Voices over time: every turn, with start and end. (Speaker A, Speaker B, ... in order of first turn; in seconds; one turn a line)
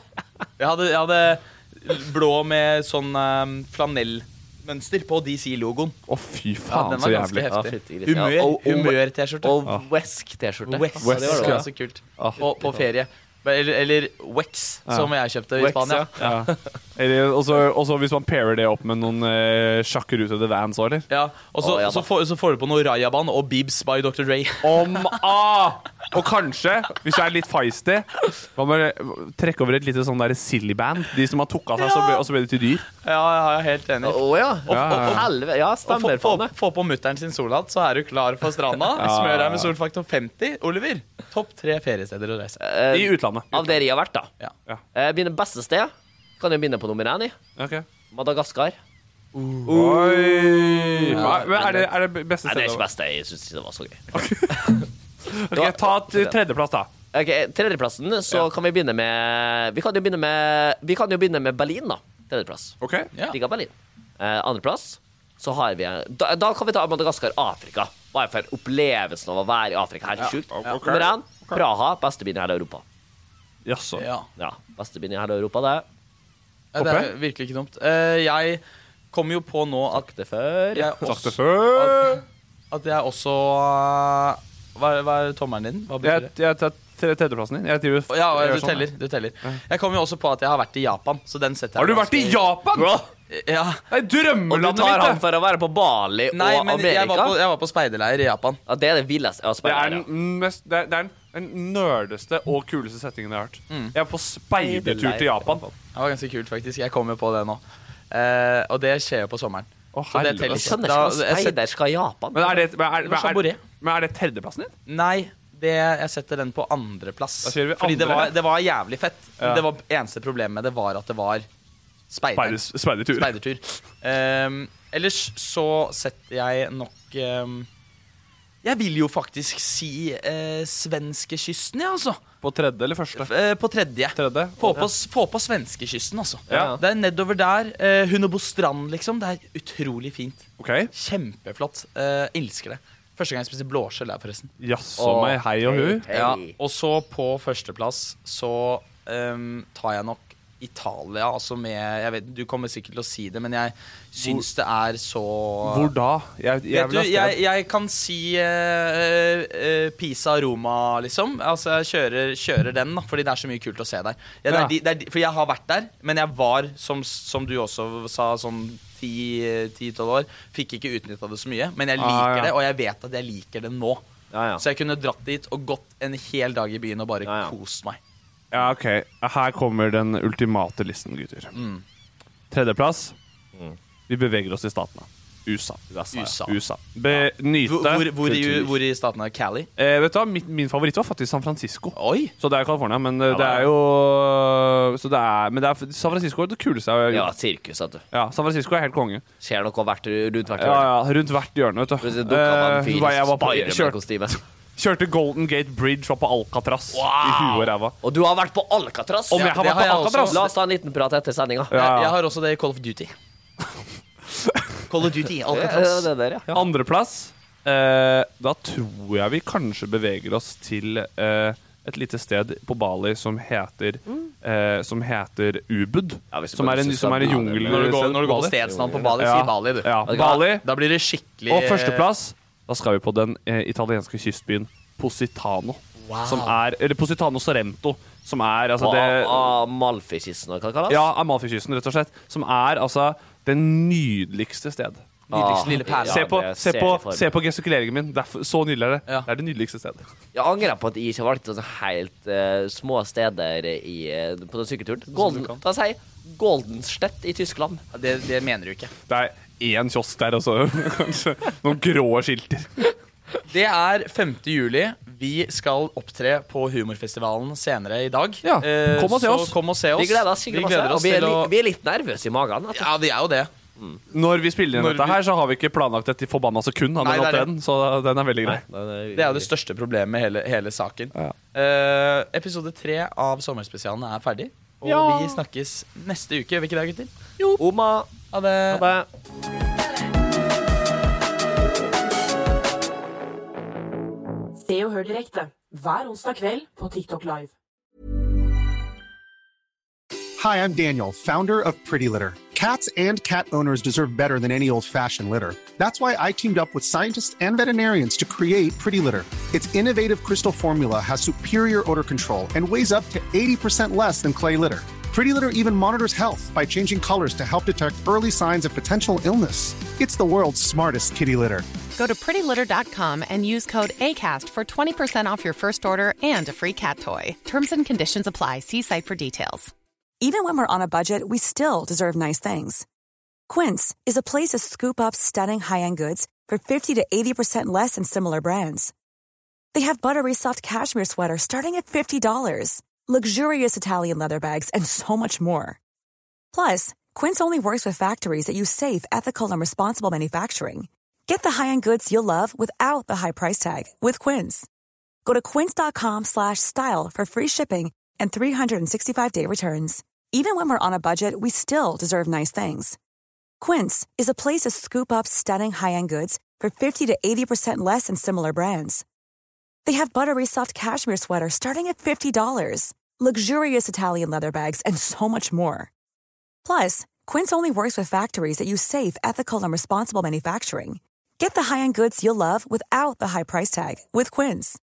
Speaker A: 0.6-6.0
Speaker B: 6.1-7.5
Speaker A: 6.7-9.6
Speaker C: 7.5-11.7
Speaker A: 10.7-16.2
Speaker B: 11.0-12.4
Speaker C: 12.4-12.9
Speaker C: 15.6-16.8
Speaker B: 16.2-21.1
Speaker A: 21.1-24.8
Speaker C: 21.6-22.1
Speaker B: 24.6-32.9
Speaker A: 31.8-32.2
Speaker A: 33.0-35.3
Speaker C: 34.0-36.5
Speaker B: 34.7-35.2
Speaker A: 35.9-42.6
Speaker B: 39.0-39.7
Speaker C: 42.6-44.3
Speaker B: 42.9-43.8
Speaker C: 44.9-47.4
Speaker B: 47.6-47.9
Speaker C: 48.1-48.8
Speaker A: 49.3-49.8
Speaker C: 49.6-51.9
Speaker B: 49.7-52.9
Speaker A: 51.1-51.5
Speaker C: 52.4-54.9
Speaker B: 54.1-56.9
Speaker C: 55.5-56.4
Speaker C: 57.1-62.8
Speaker B: 62.8-63.1
Speaker C: 63.3-72.8
Speaker A: 70.2-70.8
Speaker B: 70.5-71.6
Speaker B: 73.7-74.0
Speaker A: 74.0-74.3
Speaker C: 74.4-75.8
Speaker A: 76.7-80.0
Speaker B: 76.8-77.1
Speaker C: 79.9-81.1
Speaker A: 80.7-86.3
Speaker B: 81.0-82.2
Speaker B: 86.0-88.9
Speaker A: 88.1-92.3
Speaker B: 91.8-92.9
Speaker C: 92.7-93.1
Speaker A: 93.3-93.8
Speaker B: 93.9-95.2
Speaker C: 94.5-97.4
Speaker A: 96.3-98.6
Speaker C: 98.7-100.0
Speaker B: 99.6-105.6
Speaker A: 103.7-103.9
Speaker C: 104.5-105.7
Speaker A: 105.9-111.6
Speaker B: 109.9-110.7
Speaker C: 110.5-112.6
Speaker B: 112.3-114.7
Speaker A: 113.0-113.6
Speaker A: 114.9-121.5
Speaker B: 117.4-118.4
Speaker A: 122.1-127.7
Speaker B: 122.3-123.3
Speaker A: 128.6-132.2
Speaker B: 132.4-133.3
Speaker A: 133.1-144.5
Speaker B: 134.2-134.8
Speaker C: 136.5-136.8
Speaker B: 140.6-140.9
Speaker B: 144.6-146.1
Speaker C: 145.0-146.6
Speaker A: 146.1-155.9
Speaker B: 154.2-154.4
Speaker B: 155.6-157.4
Speaker A: 156.7-174.0
Speaker B: 164.5-164.7
Speaker B: 172.0-172.5
Speaker C: 174.3-174.6
Speaker A: 174.6-178.0
Speaker C: 177.2-177.5
Speaker B: 178.5-181.5
Speaker A: 181.5-181.8
Speaker B: 182.5-183.1
Speaker B: 184.1-188.7
Speaker C: 185.9-186.2
Speaker A: 186.1-186.6
Speaker A: 187.1-189.7
Speaker B: 189.8-197.3
Speaker A: 191.9-192.3
Speaker C: 193.3-193.7
Speaker C: 197.1-198.0
Speaker B: 198.1-199.2
Speaker C: 199.4-200.9
Speaker B: 200.6-204.0
Speaker C: 202.0-204.4
Speaker B: 204.8-207.9
Speaker C: 206.9-209.5
Speaker B: 209.3-210.4
Speaker A: 209.3-210.5
Speaker C: 210.2-211.8
Speaker A: 211.7-213.1
Speaker B: 211.7-212.1
Speaker A: 214.9-216.1
Speaker C: 215.5-216.7
Speaker B: 216.5-228.5
Speaker C: 226.3-227.9
Speaker A: 227.7-232.1
Speaker C: 228.6-229.2
Speaker B: 229.2-230.6
Speaker C: 230.1-230.4
Speaker B: 231.5-239.5
Speaker A: 236.0-236.6
Speaker C: 238.8-241.1
Speaker B: 240.9-245.2
Speaker A: 245.3-246.4
Speaker C: 245.3-247.3
Speaker B: 246.0-250.1
Speaker C: 250.3-257.8
Speaker A: 255.1-255.6
Speaker A: 257.9-258.9
Speaker B: 259.1-262.9
Speaker A: 263.5-271.5
Speaker B: 268.4-269.6
Speaker C: 269.9-272.9
Speaker A: 272.7-273.5
Speaker B: 274.1-278.6
Speaker A: 274.7-275.2
Speaker A: 277.0-277.5
Speaker C: 278.4-279.5
Speaker A: 279.1-287.1
Speaker C: 284.8-285.4
Speaker C: 287.4-289.1
Speaker A: 288.3-288.8
Speaker D: 294.6-297.5
Speaker E: 300.4-321.6
Speaker F: 321.9-329.7
Speaker G: 330.2-332.8
Speaker G: 333.5-338.9
Speaker G: 339.7-345.8
Speaker G: 346.5-354.7
Speaker G: 355.2-363.0
Speaker G: 363.6-369.0
Speaker G: 369.9-375.9
Speaker G: 376.6-384.8